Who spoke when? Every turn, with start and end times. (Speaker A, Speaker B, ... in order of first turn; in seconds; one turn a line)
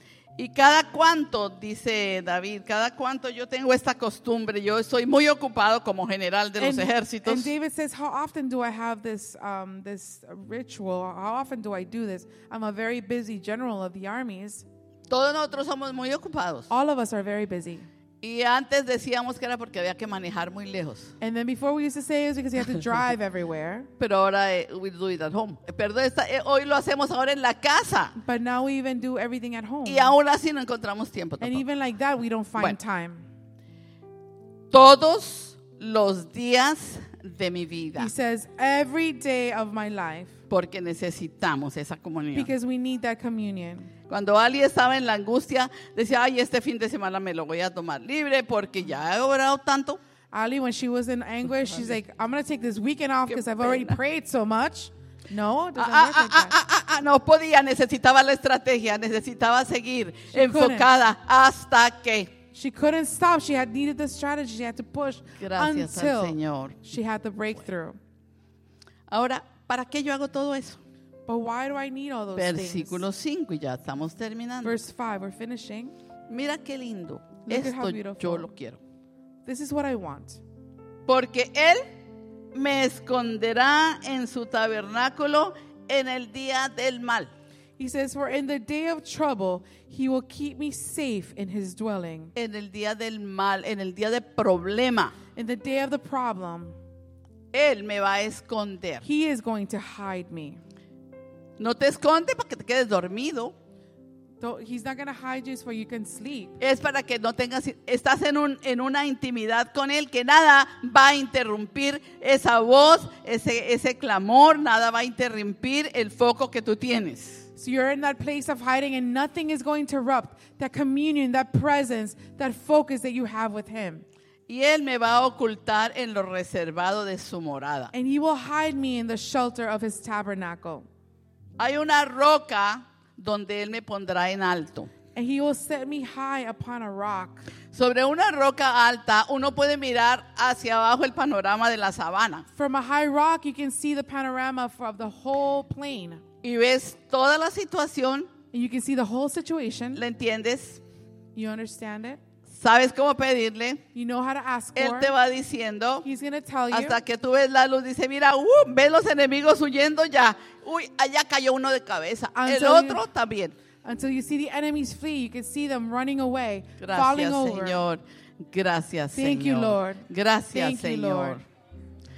Speaker A: 0.4-7.5
Speaker B: 6.6-14.7
Speaker A: 15.1-16.7
Speaker B: 16.7-17.9
Speaker A: 18.2-21.1
Speaker B: 21.2-23.9
Speaker A: 24.0-28.2
Speaker B: 28.2-30.1
Speaker A: 29.9-31.6
Speaker B: 31.4-33.3
Speaker A: 34.7-38.1
Speaker B: 38.0-40.3
Speaker A: 40.5-42.5
Speaker B: 42.3-43.9
Speaker A: 44.1-50.0
Speaker B: 50.3-56.5
Speaker A: 53.3-54.0
Speaker A: 55.8-62.3
Speaker B: 60.3-60.9
Speaker B: 62.5-68.0
Speaker A: 65.4-66.8
Speaker A: 69.1-70.8
Speaker B: 71.3-73.0
Speaker A: 72.4-74.8
Speaker B: 74.6-75.9
Speaker A: 76.3-78.8
Speaker B: 77.5-78.5
Speaker B: 79.5-80.4
Speaker A: 81.1-81.9
Speaker A: 82.5-87.3
Speaker B: 87.8-92.3
Speaker A: 92.3-95.1
Speaker B: 95.3-96.8
Speaker A: 97.5-99.0
Speaker B: 99.0-100.6
Speaker A: 101.6-103.5
Speaker B: 104.4-106.6
Speaker A: 106.6-117.5
Speaker B: 117.6-124.0
Speaker A: 124.5-127.9
Speaker B: 127.9-130.9
Speaker A: 131.6-134.9
Speaker B: 135.2-137.4
Speaker A: 137.7-142.5
Speaker B: 142.6-146.2
Speaker A: 146.4-148.3
Speaker B: 148.5-150.0
Speaker A: 149.9-150.8
Speaker B: 151.3-152.2
Speaker A: 152.5-153.8
Speaker B: 153.9-155.1
Speaker A: 154.8-156.1
Speaker B: 156.0-157.0
Speaker A: 156.7-163.6
Speaker B: 162.4-163.0
Speaker B: 163.8-167.8
Speaker A: 166.8-171.4
Speaker B: 169.2-171.4